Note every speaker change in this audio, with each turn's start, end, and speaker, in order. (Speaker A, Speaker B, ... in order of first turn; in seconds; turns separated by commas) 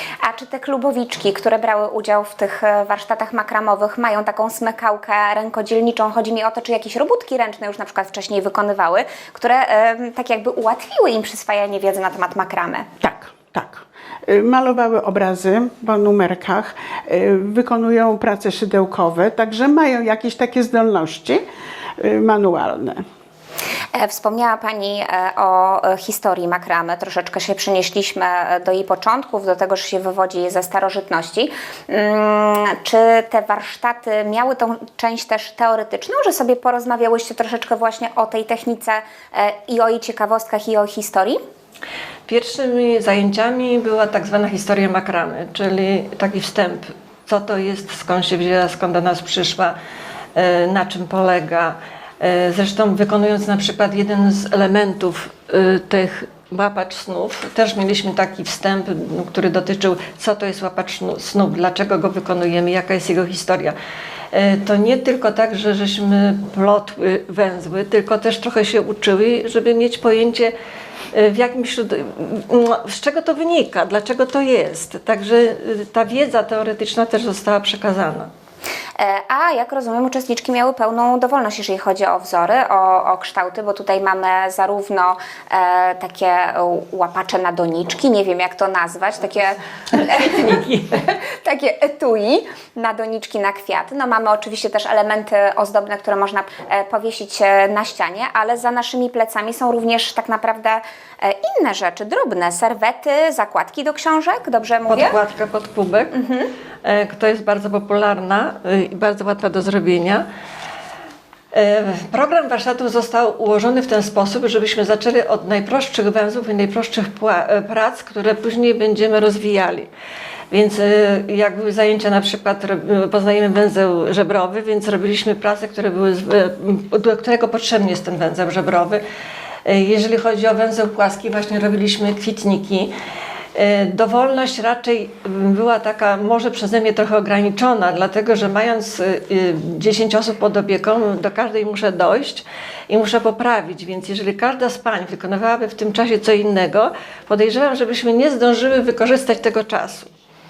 Speaker A: 0.2-12.9, Speaker B: 13.0-21.4, Speaker B: 22.0-23.0, Speaker A: 23.9-41.4, Speaker C: 42.3-49.7, Speaker C: 50.3-63.8, Speaker C: 64.3-70.5, Speaker C: 71.1-78.3, Speaker A: 79.0-90.4, Speaker C: 90.0-91.0, Speaker A: 91.2-105.2, Speaker C: 104.9-106.1, Speaker A: 106.1-106.5, Speaker C: 106.8-110.2, Speaker C: 111.5-119.9, Speaker C: 120.5-129.0, Speaker C: 129.6-132.9, Speaker C: 133.5-150.1